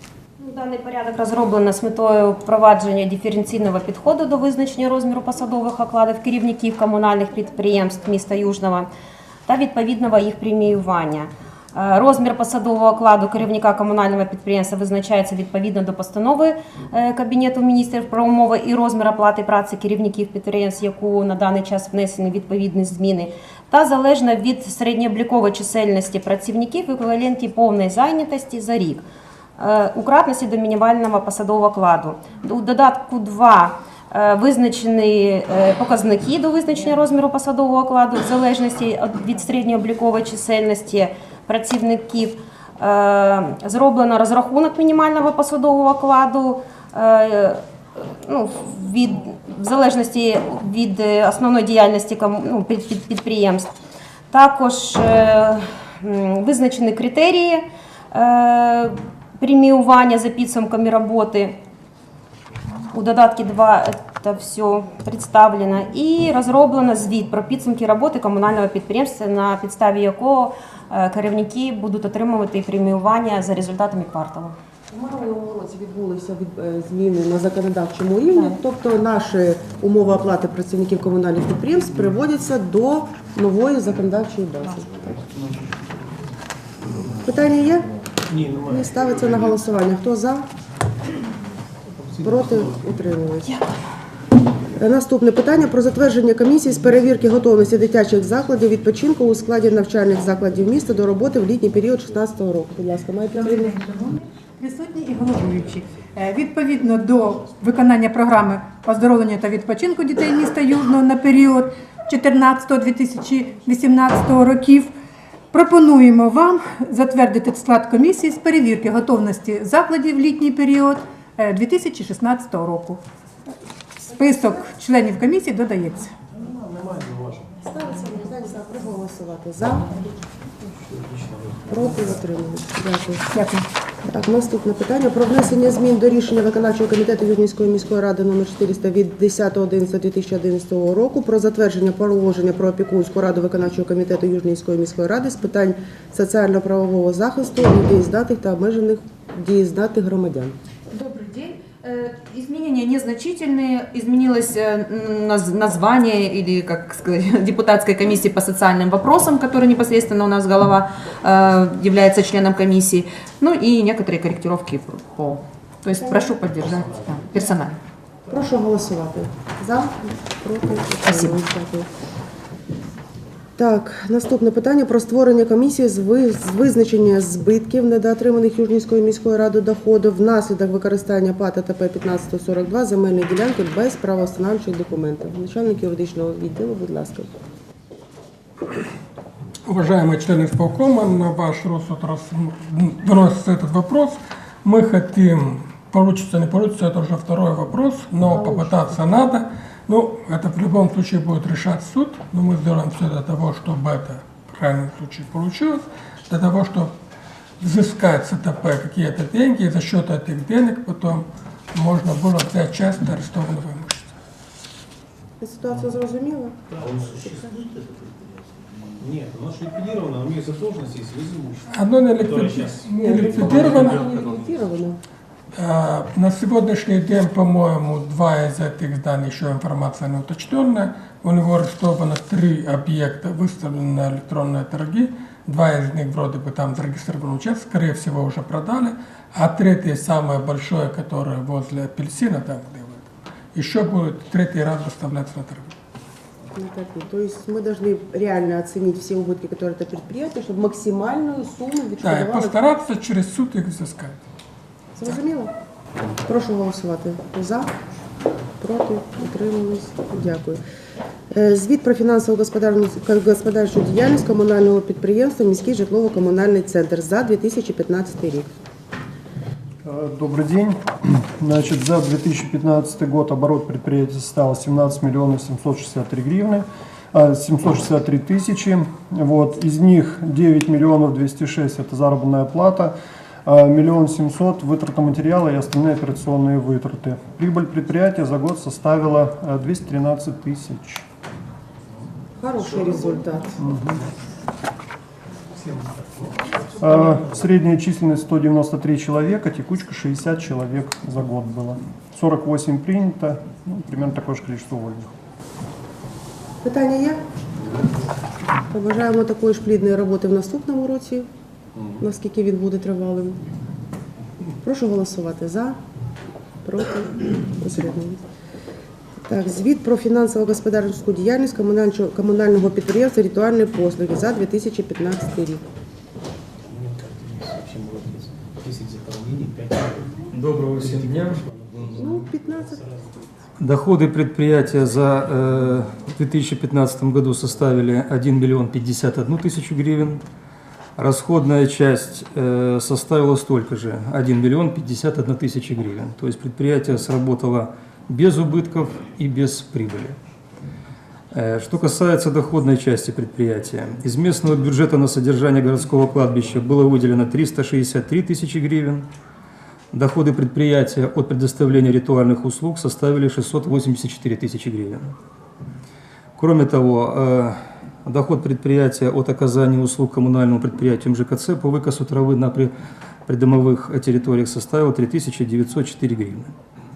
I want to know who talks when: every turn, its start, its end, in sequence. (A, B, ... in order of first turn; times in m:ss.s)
0:00.4-0:08.9 A
0:09.5-0:29.0 A
0:29.6-0:53.7 A
0:54.3-1:01.6 A
1:02.9-1:14.6 A
1:14.9-1:25.2 B
1:27.2-1:27.9 B
1:28.3-1:29.4 C
1:28.7-1:30.5 B
1:31.9-1:33.0 C
1:32.2-1:33.5 B
1:34.8-1:43.8 B
1:43.4-1:54.9 D
1:45.3-1:46.1 C
1:55.5-2:03.0 D
2:04.0-2:06.1 D
2:06.3-2:07.6 C
2:07.6-2:09.9 B
2:10.9-2:12.3 C
2:11.7-2:13.4 B
2:13.3-2:13.6 D
2:14.1-2:30.6 B
2:30.9-2:47.8 E
2:46.0-2:46.3 B
2:46.5-2:47.5 C
2:48.3-2:51.9 B
2:51.1-2:51.4 E
2:53.6-3:07.3 B
3:09.7-3:26.9 F
3:18.3-3:19.0 B
3:27.6-3:34.1 F
3:35.4-3:36.6 B
3:36.7-3:37.4 C
3:37.1-3:37.5 B
3:39.0-3:43.4 C
3:41.7-3:44.1 F
3:43.0-3:45.0 B
3:45.5-4:05.7 F
4:06.6-4:12.6 B
4:12.0-4:14.2 F
4:15.0-4:15.5 B
4:16.2-4:17.7 B
4:18.6-4:20.6 B
4:21.3-4:28.5 B
4:29.8-4:51.0 G
4:52.4-4:53.6 B
4:52.6-4:53.4 C
4:53.6-4:54.0 G
4:55.5-4:57.5 C
4:56.8-5:05.1 G
5:06.6-5:07.2 B
5:08.7-5:11.3 B
5:11.8-5:12.0 C
5:12.0-5:13.4 B
5:14.6-5:15.8 B
5:16.6-5:18.2 B
5:19.3-5:25.6 B
5:26.7-5:33.3 C
5:30.3-5:32.0 H
5:32.0-5:32.8 B
5:33.6-5:40.2 H
5:41.0-5:50.2 H
5:51.3-5:59.1 H
5:59.9-6:05.2 H
6:06.4-6:12.7 H
6:13.3-6:16.6 H